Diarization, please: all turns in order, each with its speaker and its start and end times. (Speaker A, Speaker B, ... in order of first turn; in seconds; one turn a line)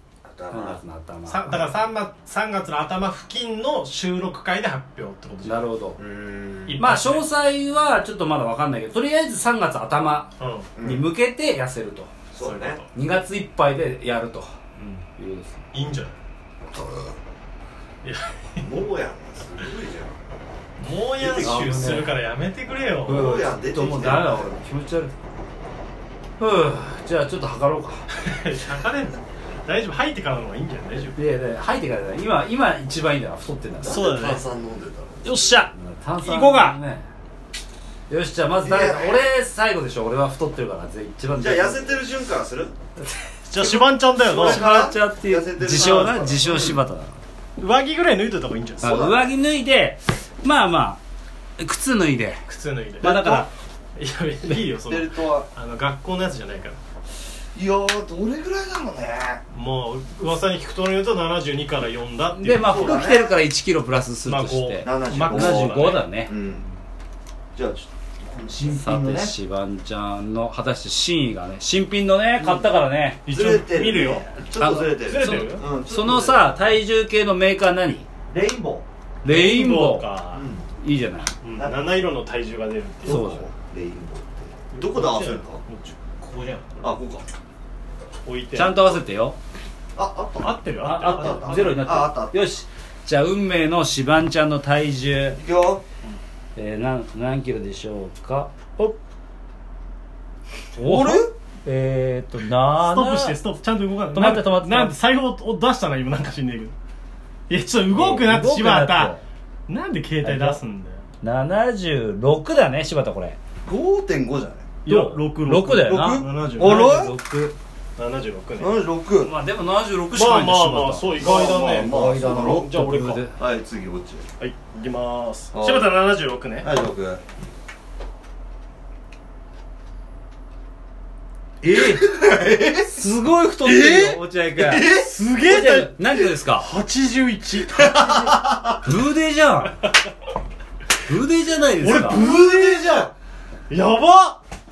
Speaker A: 0.2-0.8
Speaker B: 0.5-1.7
Speaker C: 1.3-5.7
Speaker B: 5.4-6.0
Speaker A: 6.0-6.8
Speaker C: 6.7-7.2
Speaker B: 6.8-12.1
Speaker C: 10.4-10.7
Speaker A: 10.8-11.1
Speaker A: 12.3-12.8
Speaker C: 12.4-12.9
Speaker B: 12.9-14.5
Speaker C: 14.8-15.1
Speaker B: 15.2-15.6
Speaker C: 15.7-16.2
Speaker B: 16.7-17.1
Speaker C: 18.0-18.8
Speaker A: 18.6-20.2
Speaker C: 20.8-23.3
Speaker A: 21.2-21.7
Speaker B: 21.4-22.1
Speaker B: 23.0-25.1
Speaker A: 23.1-24.6
Speaker B: 26.4-28.1
Speaker C: 28.1-31.2
Speaker B: 31.1-34.0
Speaker A: 33.8-35.5
Speaker C: 33.9-34.4
Speaker C: 35.2-36.8
Speaker B: 35.7-37.1
Speaker B: 38.1-42.0
Speaker A: 38.6-39.2
Speaker A: 41.4-42.7
Speaker B: 43.0-43.7
Speaker C: 43.5-44.7
Speaker A: 44.2-46.8
Speaker B: 44.3-47.2
Speaker C: 45.7-46.2
Speaker C: 47.6-49.1
Speaker A: 48.8-49.2
Speaker B: 48.8-51.0
Speaker B: 51.6-52.4
Speaker C: 52.5-56.8
Speaker B: 53.0-53.5
Speaker A: 54.9-55.5
Speaker A: 57.5-59.4
Speaker C: 59.5-63.1
Speaker B: 62.3-66.3
Speaker A: 62.6-63.3
Speaker C: 64.2-66.8
Speaker A: 64.8-66.6
Speaker A: 67.5-69.3
Speaker B: 68.6-73.2
Speaker A: 72.4-72.7
Speaker C: 73.2-74.3
Speaker A: 73.3-76.5
Speaker B: 74.6-78.1
Speaker C: 75.0-75.6
Speaker A: 78.3-78.8
Speaker B: 79.2-80.1
Speaker C: 79.2-80.5
Speaker A: 80.3-80.7
Speaker B: 80.8-81.3
Speaker C: 81.4-83.3
Speaker A: 81.5-81.9
Speaker B: 83.0-83.5
Speaker A: 83.0-85.6
Speaker C: 84.7-86.9
Speaker A: 86.8-87.2
Speaker C: 88.2-89.0
Speaker B: 88.5-89.4
Speaker A: 89.9-92.4
Speaker C: 90.4-91.7
Speaker B: 90.8-95.4
Speaker A: 95.3-95.8
Speaker B: 96.5-99.0
Speaker B: 100.8-103.3
Speaker A: 100.8-101.3
Speaker C: 102.7-106.7
Speaker B: 104.1-104.9
Speaker C: 107.5-109.1
Speaker B: 107.9-109.2
Speaker C: 109.7-111.0
Speaker B: 110.2-110.6
Speaker B: 111.2-113.4
Speaker A: 113.7-114.7
Speaker C: 114.8-117.0
Speaker B: 114.9-117.5
Speaker A: 116.5-117.1
Speaker C: 118.0-118.8
Speaker A: 118.6-119.3
Speaker B: 119.2-123.4
Speaker C: 120.1-123.2
Speaker A: 121.1-122.7
Speaker A: 123.4-124.2
Speaker C: 124.4-126.7
Speaker A: 125.5-125.9
Speaker A: 126.6-127.2
Speaker B: 131.6-132.1
Speaker A: 131.7-133.1
Speaker B: 132.9-134.9
Speaker A: 133.7-135.1
Speaker C: 133.7-134.2
Speaker C: 134.9-138.4
Speaker B: 135.4-136.7
Speaker A: 137.7-138.9
Speaker B: 138.8-139.8
Speaker B: 141.1-142.2
Speaker C: 141.8-143.1
Speaker A: 142.0-143.1
Speaker C: 143.7-144.4